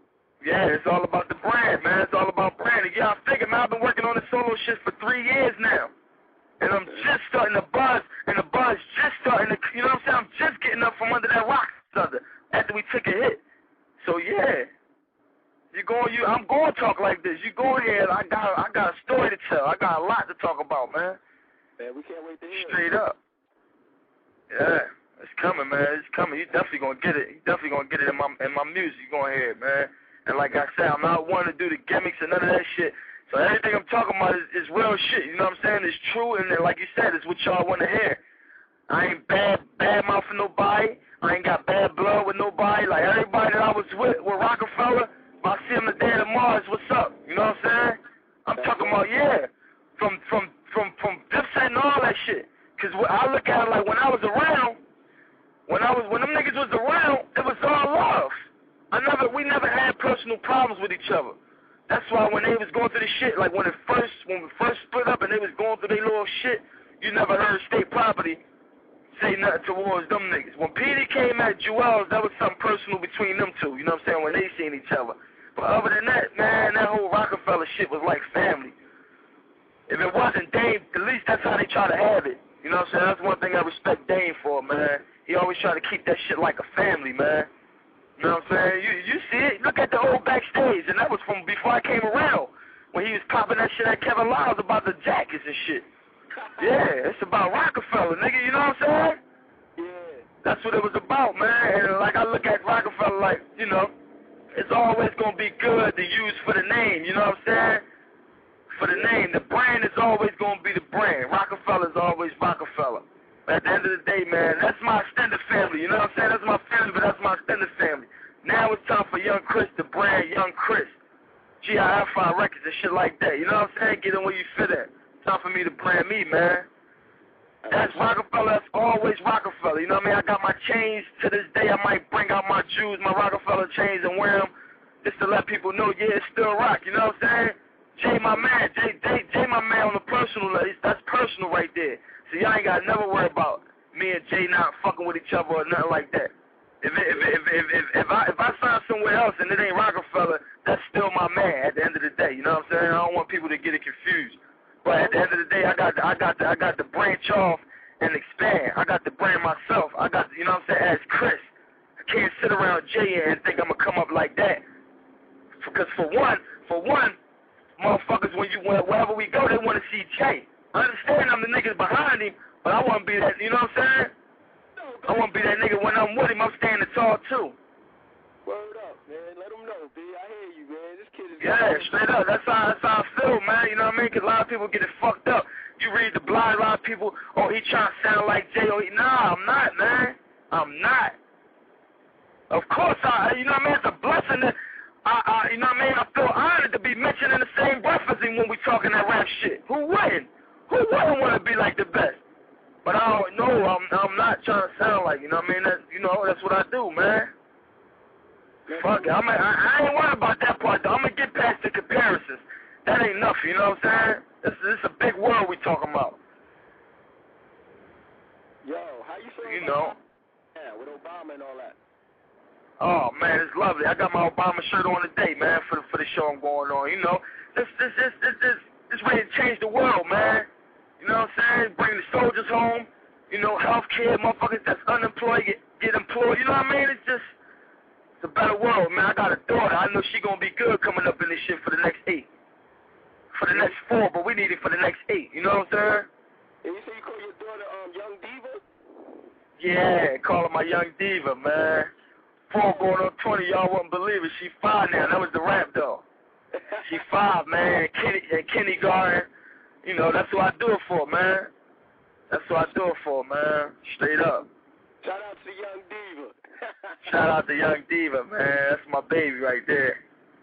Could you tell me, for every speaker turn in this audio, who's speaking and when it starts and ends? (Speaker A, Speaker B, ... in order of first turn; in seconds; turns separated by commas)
Speaker A: 0.4-5.9, Speaker A: 6.6-13.4, Speaker A: 14.0-14.7, Speaker A: 15.7-21.2, Speaker B: 21.8-22.8, Speaker A: 22.5-23.2, Speaker A: 24.5-38.2, Speaker A: 38.9-54.8, Speaker B: 48.5-49.0, Speaker A: 55.7-58.3, Speaker A: 58.9-68.4, Speaker A: 69.2-78.8, Speaker A: 79.9-87.5, Speaker A: 88.2-95.8, Speaker B: 96.4-96.6, Speaker A: 96.6-99.2, Speaker B: 99.8-100.3, Speaker A: 100.4-103.9, Speaker A: 104.5-107.8, Speaker A: 108.7-121.0, Speaker B: 108.8-109.1, Speaker A: 121.6-126.7, Speaker B: 127.6-128.1, Speaker A: 127.7-134.5, Speaker A: 135.0-161.5, Speaker A: 162.1-164.6, Speaker A: 165.6-167.2, Speaker A: 167.8-174.1, Speaker B: 174.8-175.5, Speaker A: 175.1-177.6, Speaker B: 178.4-181.9, Speaker A: 181.4-191.2, Speaker A: 192.5-202.2, Speaker A: 202.8-207.3, Speaker B: 208.7-209.1, Speaker A: 208.7-216.2, Speaker B: 218.6-220.0, Speaker A: 219.4-219.9, Speaker B: 220.5-221.8, Speaker A: 222.8-230.5, Speaker A: 231.0-237.3, Speaker A: 238.2-242.3, Speaker A: 243.3-246.1, Speaker B: 246.6-248.6, Speaker A: 249.6-251.9, Speaker A: 252.5-256.0, Speaker B: 252.6-252.9, Speaker B: 256.6-256.9, Speaker A: 256.8-259.3, Speaker A: 259.8-261.5, Speaker A: 262.3-264.5, Speaker B: 265.0-267.0, Speaker A: 267.0-270.0